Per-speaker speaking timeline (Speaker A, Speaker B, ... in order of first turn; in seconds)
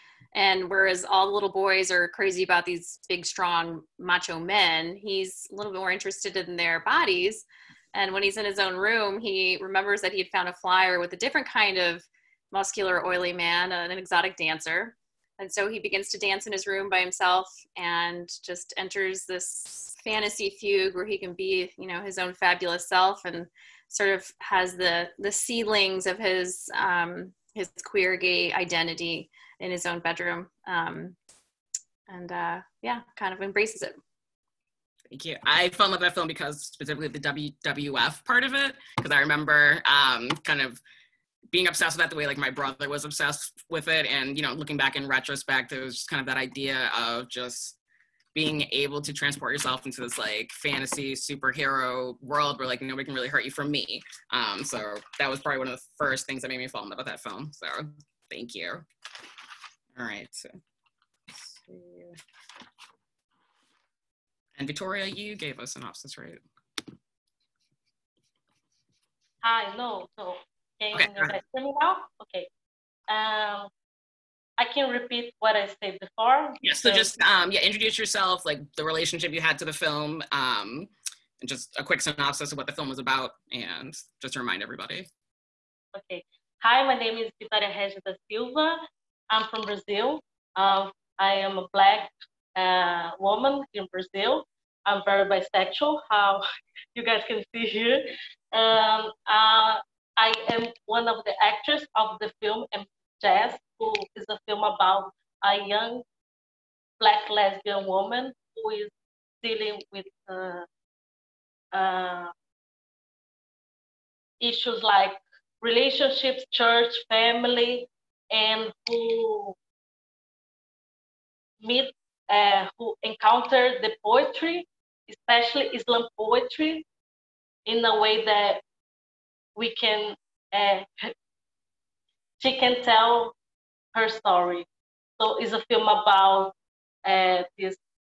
Speaker A: 0.3-31.2, 32.1-34.0
Speaker B: 35.1-40.8, 41.5-47.8, 48.4-58.9, 60.0-60.5, 61.3-62.2, 64.6-66.4, 70.9-71.4, 76.6-85.1
Speaker C: 69.4-72.5, 73.1-73.7, 74.6-77.1, 85.9-96.4, 97.0-106.0, 107.0-108.9, 109.4-110.7, 111.7-112.3, 114.4-119.6, 121.6-126.8, 127.7-128.6, 129.6-131.1, 132.4-133.3, 133.9-134.7, 135.2-137.8